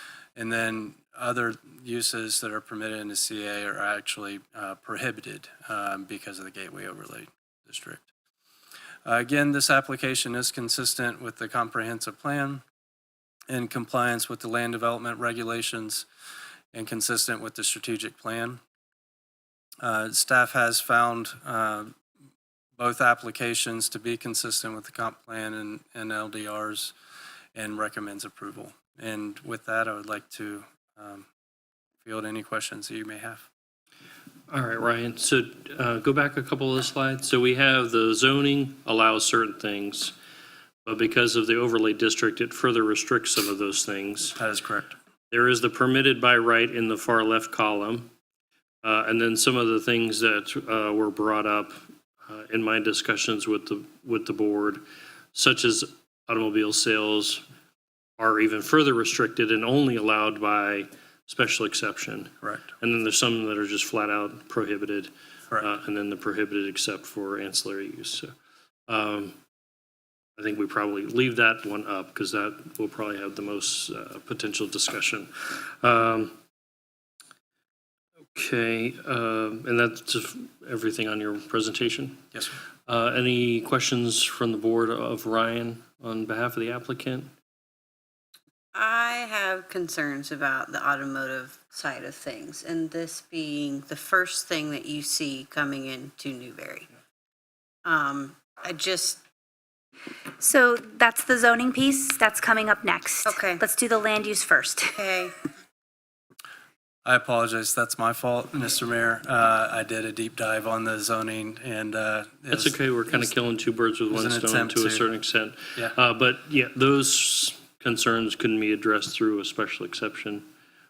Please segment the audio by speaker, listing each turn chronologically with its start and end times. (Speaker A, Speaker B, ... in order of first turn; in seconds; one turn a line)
Speaker A: 0.3-8.1
Speaker A: 9.0-12.6
Speaker A: 13.5-16.1
Speaker A: 16.7-18.6
Speaker A: 19.8-21.9
Speaker A: 22.8-26.9
Speaker A: 27.5-31.2
Speaker A: 32.0-33.5
Speaker B: 34.5-40.1
Speaker B: 40.8-44.4
Speaker A: 44.4-45.0
Speaker B: 45.3-48.1
Speaker B: 48.8-54.8
Speaker B: 55.3-57.4
Speaker B: 58.2-68.3
Speaker A: 62.4-62.7
Speaker B: 68.9-69.3
Speaker B: 70.4-76.3
Speaker B: 78.3-82.2
Speaker B: 82.9-87.3
Speaker C: 88.7-96.9
Speaker C: 97.8-99.2
Speaker D: 100.4-104.9
Speaker C: 103.2-103.6
Speaker C: 105.0-105.3
Speaker A: 107.0-113.3
Speaker B: 112.5-120.5
Speaker A: 114.1-115.1